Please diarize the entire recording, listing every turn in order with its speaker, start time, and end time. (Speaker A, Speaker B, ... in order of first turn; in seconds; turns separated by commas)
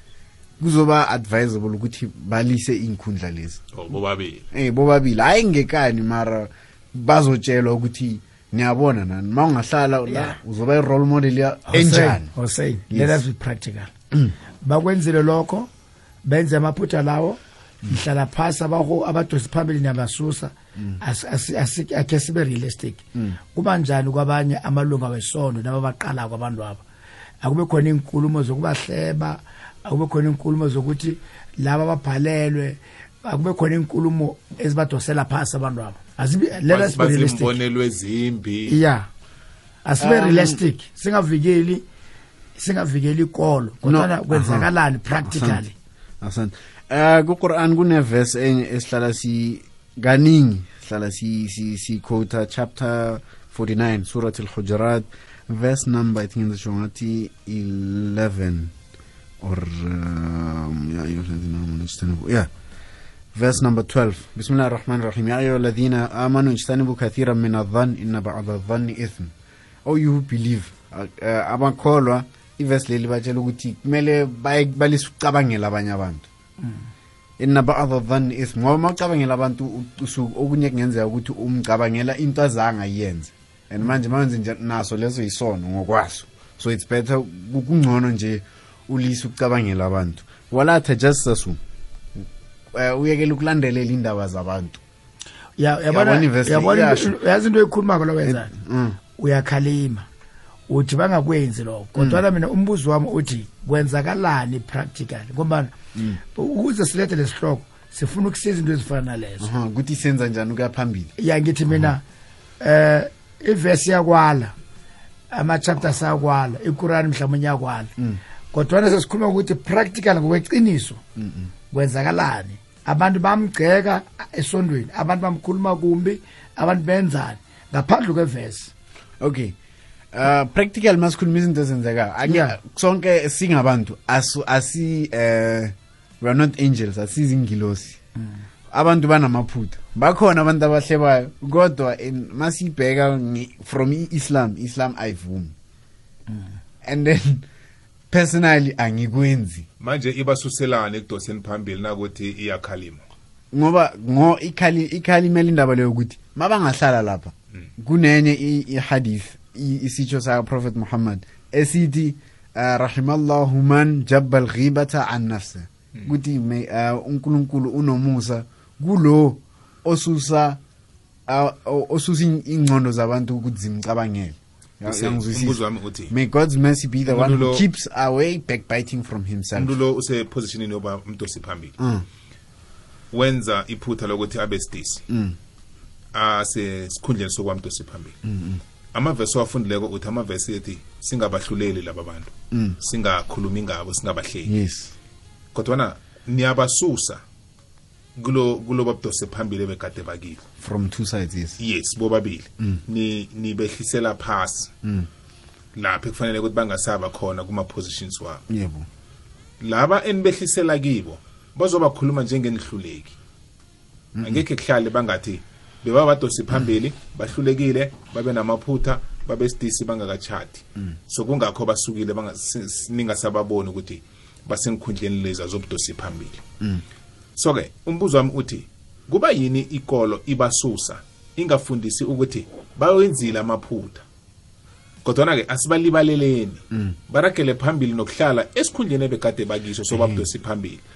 Speaker A: 0.6-3.6, Speaker B: 3.7-4.4, Speaker A: 4.5-12.3, Speaker C: 10.1-10.3, Speaker C: 11.7-13.9, Speaker A: 12.9-13.2, Speaker C: 14.6-15.7, Speaker C: 16.2-26.8, Speaker C: 27.4-37.5, Speaker B: 36.6-38.8, Speaker C: 38.7-39.1, Speaker C: 39.8-41.8, Speaker A: 40.0-40.6, Speaker C: 42.5-45.7, Speaker A: 43.8-44.7, Speaker A: 45.2-45.6, Speaker A: 46.2-58.7, Speaker A: 59.4-62.5, Speaker A: 63.3-69.3, Speaker A: 69.8-76.3, Speaker A: 77.4-91.6, Speaker A: 92.2-94.8, Speaker C: 95.6-98.5, Speaker A: 95.9-97.2, Speaker A: 98.2-99.0, Speaker C: 99.2-100.1, Speaker C: 100.7-105.7, Speaker A: 102.0-102.2, Speaker A: 105.9-106.2, Speaker C: 106.3-109.5, Speaker A: 109.4-111.1, Speaker C: 111.2-112.0, Speaker C: 112.6-114.5, Speaker C: 115.3-117.9, Speaker C: 118.5-121.0, Speaker A: 121.2-121.5, Speaker C: 121.7-128.7, Speaker A: 129.2-129.5, Speaker A: 130.1-138.0, Speaker C: 132.2-132.6, Speaker A: 138.7-145.5, Speaker A: 146.8-147.4, Speaker A: 148.1-149.7, Speaker B: 149.8-153.0, Speaker A: 153.5-170.6, Speaker A: 171.3-179.8, Speaker B: 174.8-176.1, Speaker B: 177.1-177.6, Speaker B: 179.6-181.8, Speaker A: 181.8-182.1, Speaker B: 183.1-185.0, Speaker A: 185.1-185.4, Speaker B: 186.1-188.2, Speaker A: 188.2-188.6, Speaker B: 188.9-194.5, Speaker A: 192.5-192.8, Speaker A: 194.4-194.9, Speaker B: 195.5-197.2, Speaker B: 198.2-200.4, Speaker A: 200.6-201.6, Speaker B: 201.6-204.7, Speaker B: 205.8-208.4, Speaker A: 208.5-208.9, Speaker B: 209.6-213.2, Speaker A: 214.2-214.4, Speaker B: 214.2-226.4, Speaker B: 227.4-234.0, Speaker B: 235.0-240.8, Speaker A: 239.9-240.2